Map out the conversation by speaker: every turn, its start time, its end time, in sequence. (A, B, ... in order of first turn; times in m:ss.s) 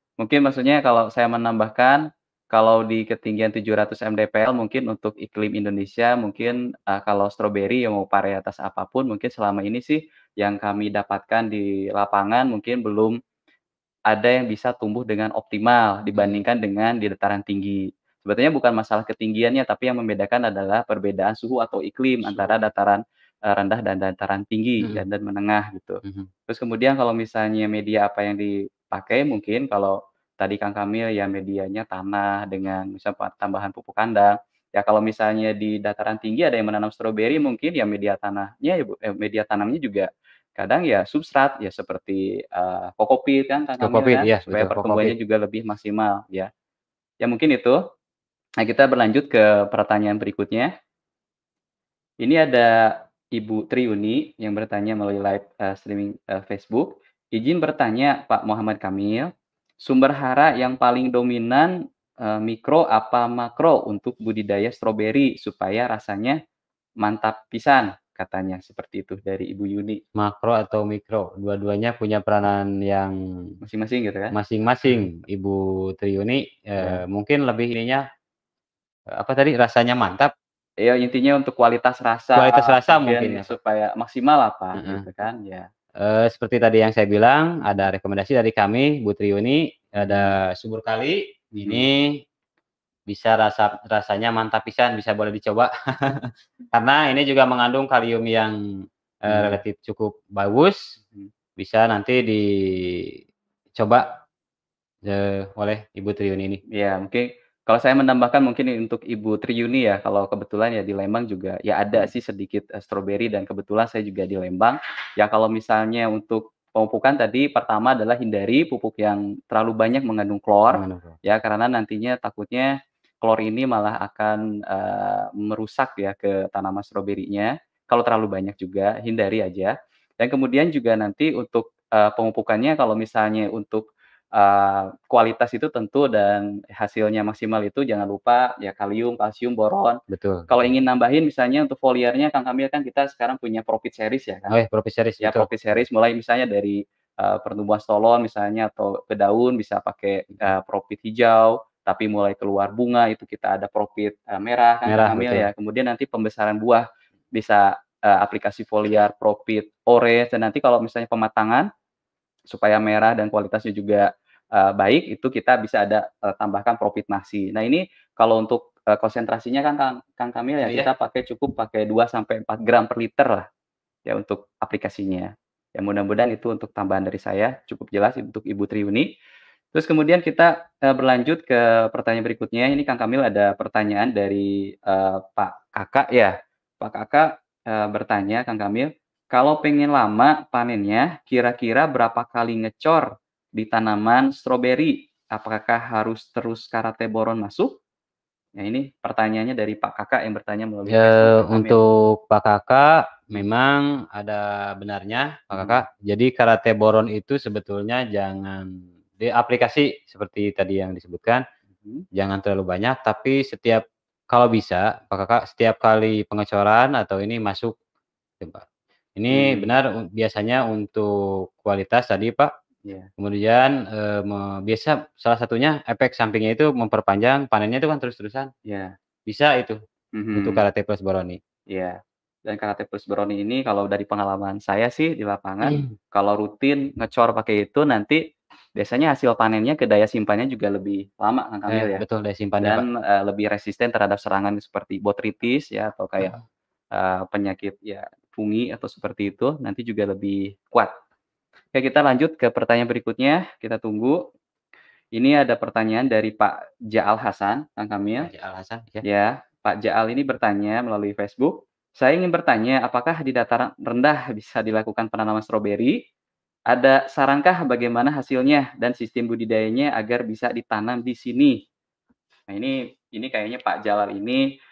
0:00.2-0:13.2 A
0:14.1-0:46.5 A
0:16.1-0:16.4 B
0:22.3-0:22.6 B
0:26.0-0:26.3 B
0:43.8-0:45.1 B
0:47.2-0:47.8 A
0:48.6-0:50.7 A
0:52.2-0:59.3 A
0:59.8-1:06.4 A
1:07.0-1:10.0 A
1:10.1-1:13.6 B
1:13.6-1:14.3 A
1:14.3-1:18.0 B
1:19.1-1:20.3 B
1:20.8-1:25.7 A
1:22.3-1:23.5 B
1:24.8-1:25.1 B
1:26.0-1:32.2 B
1:30.0-1:30.3 A
1:31.5-1:31.9 A
1:33.1-1:40.9 B
1:39.3-1:39.6 A
1:41.0-1:41.3 A
1:41.6-1:43.2 B
1:43.8-1:44.2 B
1:45.0-1:46.6 B
1:46.7-2:24.6 A
2:00.7-2:01.2 B
2:20.1-2:20.5 B
2:24.5-2:25.5 B
2:25.2-2:41.7 A
2:34.9-2:35.5 B
2:42.5-2:53.5 A
2:54.0-2:59.1 A
2:59.7-3:17.8 A
3:18.6-3:21.8 A
3:20.9-3:31.4 B
3:25.5-3:25.8 A
3:31.8-3:32.0 A
3:32.1-3:37.8 B
3:38.4-3:42.5 B
3:39.3-3:39.7 A
3:43.2-3:48.5 B
3:48.6-3:48.9 A
3:49.3-3:49.8 B
3:50.1-3:50.6 A
3:50.4-3:51.4 B
3:51.7-3:58.2 A
3:58.8-4:02.0 A
4:01.7-4:02.8 B
4:02.6-4:06.4 A
4:06.9-4:10.9 A
4:11.7-4:14.2 A
4:15.2-4:18.3 A
4:18.2-4:19.0 B
4:19.0-4:26.0 A
4:26.7-4:31.6 A
4:32.5-4:34.5 A